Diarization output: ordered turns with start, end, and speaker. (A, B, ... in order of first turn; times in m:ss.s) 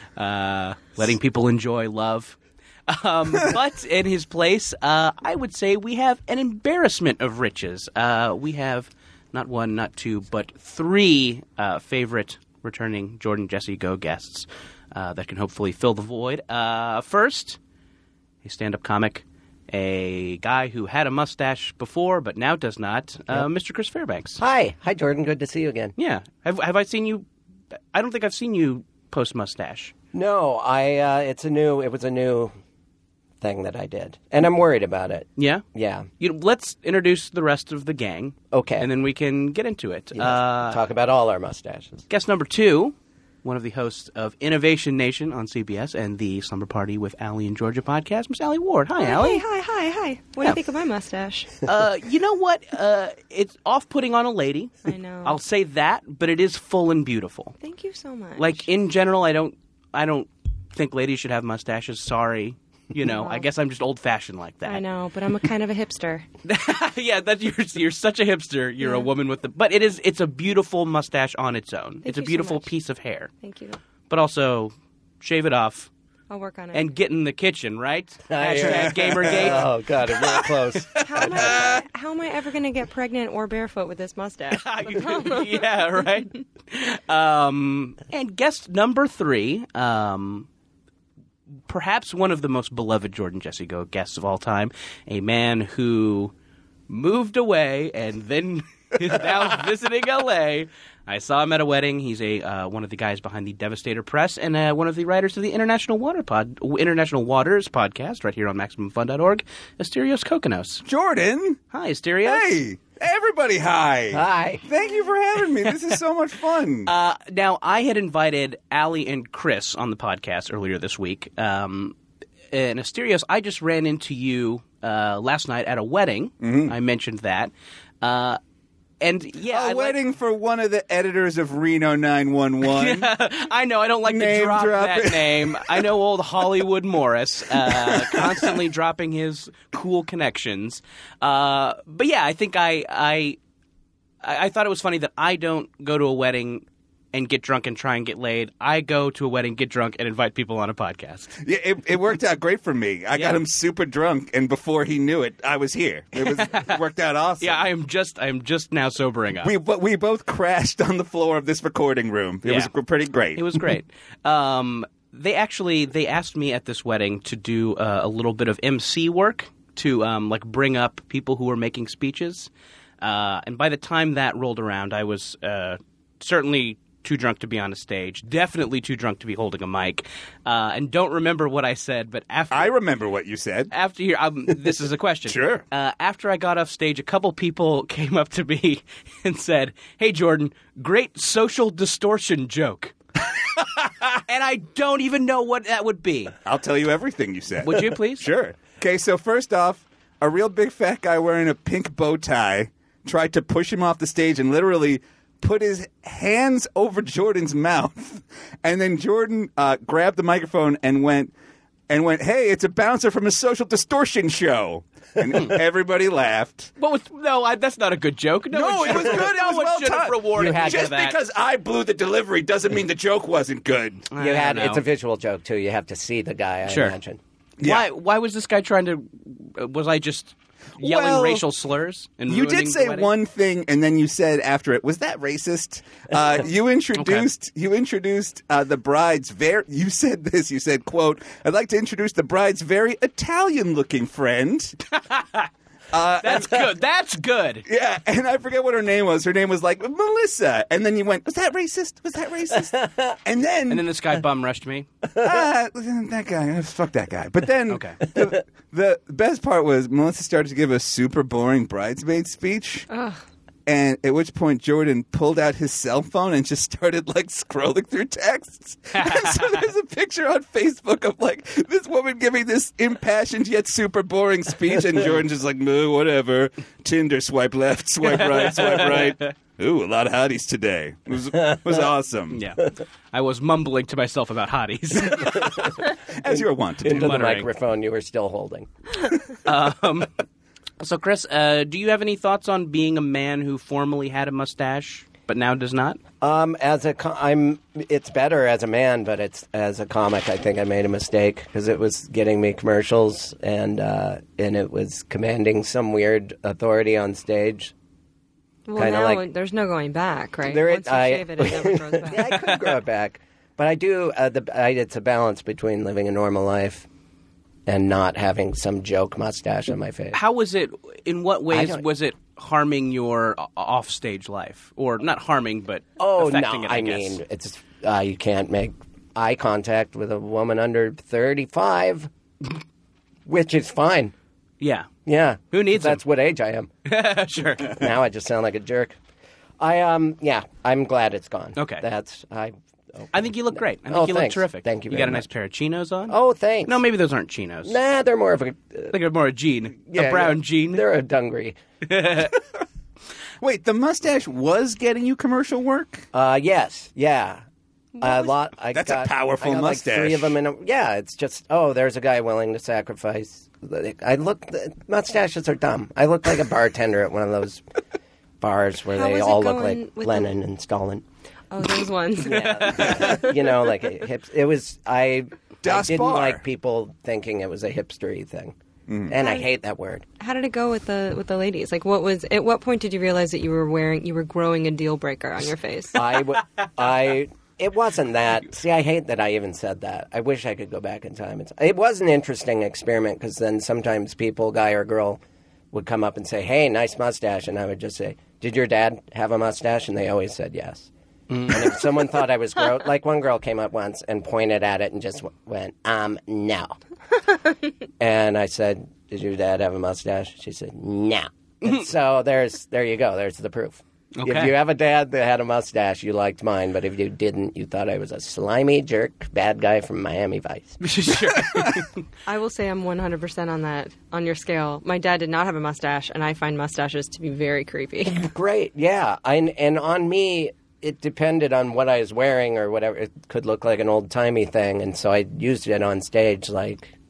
0:00.2-0:17.6 A
0:18.4-0:24.4 A
0:24.4-0:25.9 B
0:26.0-0:27.3 A
0:27.9-0:29.9 A
0:30.1-0:32.5 B
0:33.4-0:36.1 B
0:35.4-0:35.6 A
0:36.2-0:40.8 A
0:38.5-0:38.9 B
0:40.1-0:42.0 B
0:42.1-0:49.4 A
0:49.0-0:51.6 C
0:51.6-0:54.7 A
0:54.8-0:55.4 C
0:55.2-0:57.5 A
0:57.6-0:58.7 C
0:58.4-1:04.8 A
1:03.0-1:03.5 C
1:04.6-1:06.2 C
1:06.4-1:13.3 A
1:08.8-1:09.1 C
1:12.0-1:12.7 C
1:13.4-1:13.8 C
1:14.1-1:15.9 A
1:16.3-1:16.9 C
1:16.7-1:21.8 A
1:18.3-1:21.8 B
1:21.0-1:26.4 C
1:24.5-1:30.5 A
1:31.7-1:36.3 A
1:36.9-1:50.8 A
1:50.8-1:51.6 D
1:51.7-1:52.6 A
1:52.2-1:56.9 D
1:54.1-1:54.6 B
1:55.6-1:55.9 A
1:56.8-2:02.0 A
2:02.5-2:08.4 A
2:06.4-2:06.7 D
2:09.0-2:10.0 A
2:09.5-2:13.1 D
2:12.6-2:23.4 A
2:14.0-2:15.9 D
2:17.6-2:18.5 D
2:24.2-2:31.4 A
2:31.4-2:37.6 D
2:33.1-2:33.4 A
2:36.2-2:36.8 A
2:37.4-2:39.5 A
2:39.4-2:43.6 D
2:42.4-2:42.7 A
2:43.3-2:52.5 A
2:53.0-3:02.8 A
3:02.5-3:03.7 D
3:03.7-3:12.9 A
3:05.3-3:05.6 D
3:13.6-3:16.4 A
3:16.4-3:31.3 D
3:17.6-3:18.3 A
3:31.9-3:36.7 D
3:36.8-3:41.2 A
3:38.5-3:44.0 D
3:40.4-3:40.9 B
3:44.1-3:44.8 A
3:44.2-3:47.2 B
3:46.6-3:47.0 A
3:47.6-3:47.8 D
3:47.6-3:53.1 A
3:50.8-3:51.4 D
3:52.3-4:04.8 D
3:56.9-3:57.3 A
4:04.9-4:05.5 A
4:05.9-4:06.7 D
4:06.2-4:07.6 A
4:07.7-4:13.8 D
4:12.5-4:13.1 B
4:13.7-4:14.9 A
4:15.2-4:22.8 D
4:17.7-4:18.0 A
4:22.9-4:23.2 C
4:23.6-4:42.4 D
4:28.9-4:29.4 A
4:38.0-4:39.3 A
4:42.3-4:45.6 A
4:45.4-4:47.2 D
4:46.3-4:48.7 B
4:46.8-4:47.5 A
4:49.4-4:50.1 A
4:50.8-4:56.0 A
4:56.2-5:07.7 B
5:08.7-5:12.5 C
5:08.8-5:09.2 B
5:10.5-5:16.9 B
5:17.6-5:20.2 B
5:20.1-5:27.2 A
5:21.5-5:21.8 B
5:26.0-5:32.1 B
5:33.2-5:34.1 B
5:34.6-5:34.9 A
5:35.0-5:36.7 B
5:35.5-5:36.0 A
5:36.8-5:37.8 A
5:37.7-5:39.0 B
5:39.6-5:45.2 B
5:41.6-5:41.8 A
5:43.1-5:47.8 A
5:46.1-5:46.8 B
5:47.6-5:48.9 B
5:48.9-5:50.8 A
5:49.9-5:51.6 B
5:51.8-5:52.3 A
5:53.4-5:56.0 D
5:56.1-5:57.4 B
5:58.0-6:07.6 B
5:58.7-6:00.4 D
6:08.4-6:11.0 B
6:08.9-6:10.3 C
6:11.5-6:13.4 C
6:12.2-6:18.5 B
6:12.4-6:13.0 A
6:15.6-6:16.4 D
6:18.9-6:19.2 D
6:19.1-6:20.0 B
6:19.1-6:19.5 C
6:20.2-6:26.0 C
6:25.9-6:35.2 B
6:35.7-6:40.9 B
6:41.3-6:41.8 A
6:41.5-6:46.8 B
6:48.0-7:00.8 B
6:54.2-6:54.6 A
7:00.8-7:01.9 A
7:02.3-7:08.3 C
7:08.1-7:16.9 B